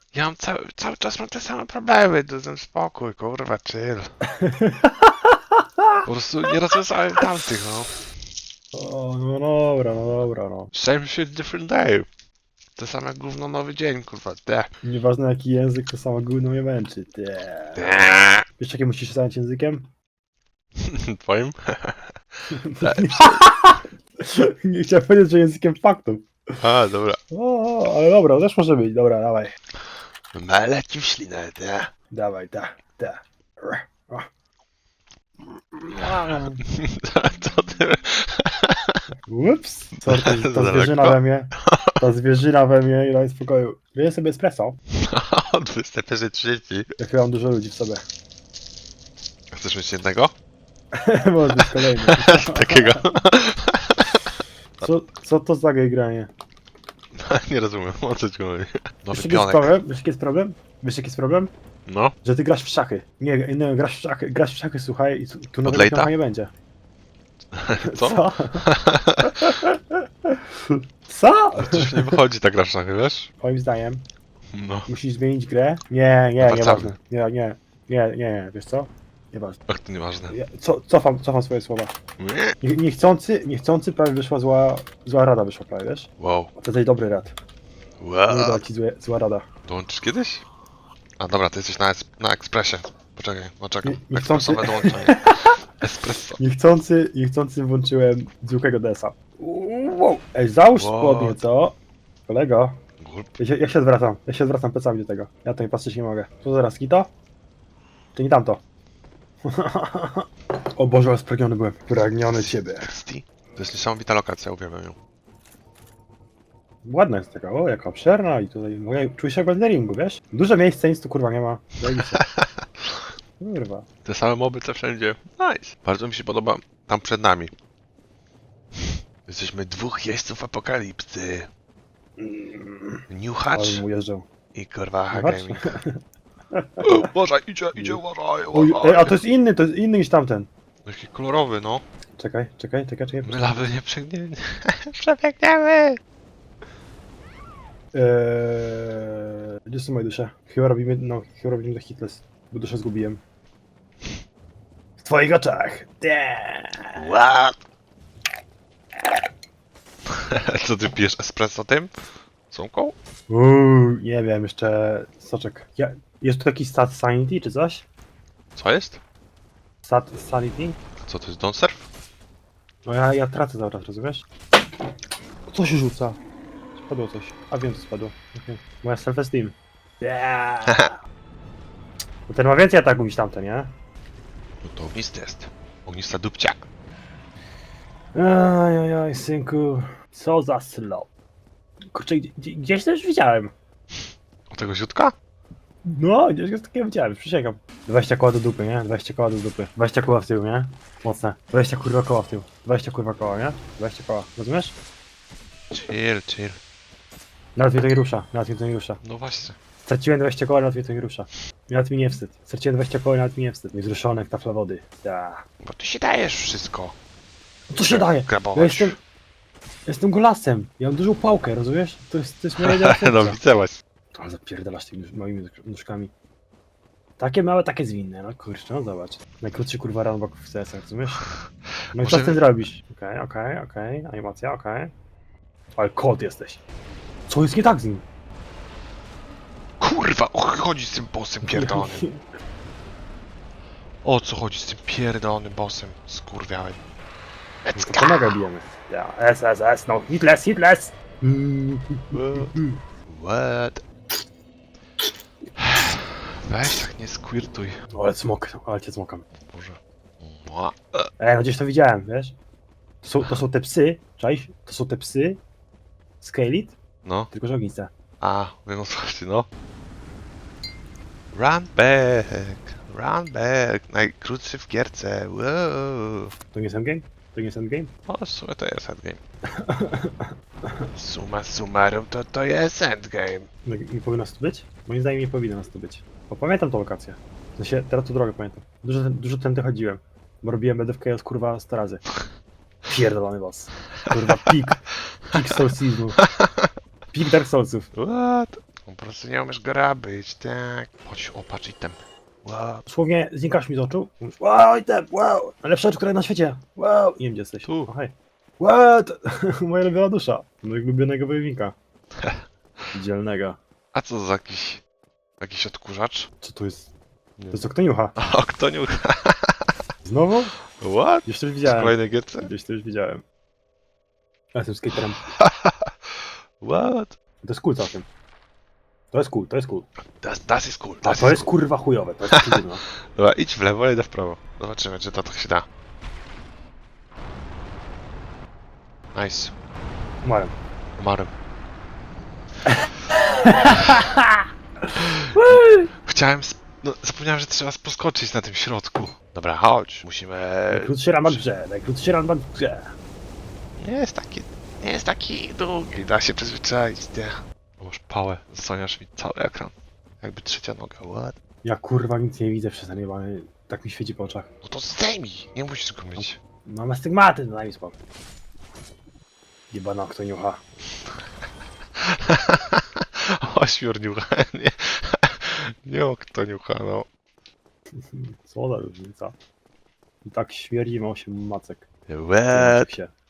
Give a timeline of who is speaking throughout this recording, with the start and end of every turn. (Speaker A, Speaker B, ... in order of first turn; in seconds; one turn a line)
Speaker A: 0.1-4.1
Speaker B: 4.3-6.0
Speaker A: 6.1-7.9
Speaker B: 8.7-10.7
Speaker A: 10.7-12.1
Speaker A: 12.8-14.7
Speaker B: 14.8-19.9
Speaker A: 17.8-18.4
Speaker A: 20.8-22.1
Speaker B: 22.5-26.6
Speaker A: 22.8-23.5
Speaker A: 26.6-27.2
Speaker B: 27.3-29.5
Speaker A: 30.3-31.9
Speaker B: 32.1-34.3
Speaker B: 35.8-36.6
Speaker A: 36.1-39.0
Speaker B: 39.3-44.8
Speaker A: 40.0-42.0
Speaker A: 45.0-46.9
Speaker B: 47.0-48.0
Speaker A: 49.5-50.4
Speaker B: 50.9-53.0
Speaker A: 51.6-54.9
Speaker B: 54.8-56.3
Speaker A: 57.2-59.7
Speaker B: 59.1-61.5
Speaker A: 61.9-62.1
Speaker B: 62.2-66.5
Speaker A: 65.7-66.1
Speaker A: 67.5-69.4
Speaker B: 67.8-68.6
Speaker B: 69.2-72.2
Speaker A: 71.6-73.3
Speaker B: 73.4-74.0
Speaker A: 74.5-74.9
Speaker B: 74.9-79.6
Speaker A: 76.4-76.9
Speaker A: 79.7-80.4
Speaker B: 80.3-82.0
Speaker A: 82.2-82.6
Speaker B: 82.6-87.3
Speaker A: 86.2-86.5
Speaker A: 88.0-88.6
Speaker B: 88.3-89.4
Speaker A: 89.7-90.5
Speaker A: 91.2-96.4
Speaker B: 93.8-95.5
Speaker B: 96.4-101.8
Speaker A: 100.7-101.4
Speaker B: 102.3-102.8
Speaker A: 103.0-103.3
Speaker B: 103.4-107.1
Speaker B: 108.2-108.6
Speaker B: 109.5-112.9
Speaker A: 112.4-115.0
Speaker B: 116.8-122.2
Speaker A: 122.0-122.9
Speaker B: 123.4-123.9
Speaker A: 124.0-127.5
Speaker A: 129.3-131.5
Speaker B: 132.2-134.3
Speaker A: 133.1-133.8
Speaker A: 134.6-135.8
Speaker B: 135.1-136.0
Speaker B: 136.5-137.1
Speaker A: 136.8-139.2
Speaker B: 137.8-138.0
Speaker B: 138.5-140.5
Speaker A: 140.8-141.8
Speaker B: 142.2-143.6
Speaker A: 143.2-146.0
Speaker B: 147.9-153.2
Speaker B: 155.0-157.1
Speaker A: 156.9-157.6
Speaker A: 160.1-162.0
Speaker A: 162.5-162.9
Speaker B: 163.3-167.8
Speaker A: 168.6-169.0
Speaker B: 169.8-170.8
Speaker A: 171.0-171.8
Speaker B: 172.9-174.3
Speaker B: 175.5-176.2
Speaker B: 176.8-180.9
Speaker A: 180.7-180.9
Speaker B: 182.3-183.7
Speaker A: 184.6-186.6
Speaker B: 188.1-191.1
Speaker B: 191.9-193.5
Speaker A: 194.5-195.1
Speaker B: 195.8-204.8
Speaker A: 205.7-206.6
Speaker B: 207.6-209.0
Speaker A: 209.0-209.6
Speaker B: 209.9-215.4
Speaker A: 215.6-216.9
Speaker B: 217.7-219.0
Speaker A: 217.8-219.0
Speaker B: 219.9-223.4
Speaker A: 222.6-223.8
Speaker B: 224.1-226.1
Speaker B: 227.2-231.3
Speaker B: 231.9-234.9
Speaker A: 231.9-232.5
Speaker B: 235.8-236.6
Speaker B: 237.3-238.1
Speaker A: 239.8-242.1
Speaker B: 241.4-242.2
Speaker A: 244.0-246.8
Speaker A: 247.6-248.4
Speaker B: 247.7-252.8
Speaker A: 252.1-252.5
Speaker A: 253.1-253.8
Speaker A: 255.6-257.8
Speaker B: 257.9-259.2
Speaker A: 259.5-261.1
Speaker B: 261.2-262.4
Speaker B: 263.0-265.4
Speaker B: 266.2-266.8
Speaker A: 267.1-267.3
Speaker B: 267.3-267.9
Speaker A: 268.2-269.5
Speaker A: 271.3-276.3
Speaker B: 276.5-277.9
Speaker A: 278.1-279.2
Speaker B: 279.5-280.9
Speaker A: 280.9-283.5
Speaker B: 283.6-292.1
Speaker B: 292.9-296.2
Speaker A: 296.2-296.7
Speaker B: 297.1-297.9
Speaker A: 297.9-302.8
Speaker B: 302.9-311.8
Speaker A: 307.6-307.9
Speaker B: 312.9-313.6
Speaker A: 313.9-314.8
Speaker A: 315.4-316.3
Speaker B: 316.4-316.9
Speaker B: 317.5-318.1
Speaker A: 318.2-319.6
Speaker B: 320.0-320.5
Speaker A: 320.8-322.5
Speaker B: 321.2-323.2
Speaker B: 324.5-325.2
Speaker A: 325.2-327.1
Speaker B: 327.4-328.1
Speaker B: 329.1-329.9
Speaker A: 330.1-331.5
Speaker B: 331.0-332.8
Speaker A: 332.3-332.6
Speaker A: 333.1-335.7
Speaker A: 339.1-339.5
Speaker B: 340.2-340.5
Speaker A: 341.0-341.3
Speaker B: 342.7-344.3
Speaker A: 343.5-344.0
Speaker A: 345.0-351.4
Speaker B: 345.3-345.9
Speaker B: 350.7-352.9
Speaker A: 353.8-361.4
Speaker B: 361.6-364.5
Speaker A: 364.6-366.4
Speaker B: 366.2-368.0
Speaker B: 369.7-370.6
Speaker A: 372.0-377.1
Speaker B: 378.1-379.3
Speaker B: 380.2-381.9
Speaker A: 382.1-382.9
Speaker B: 382.5-383.1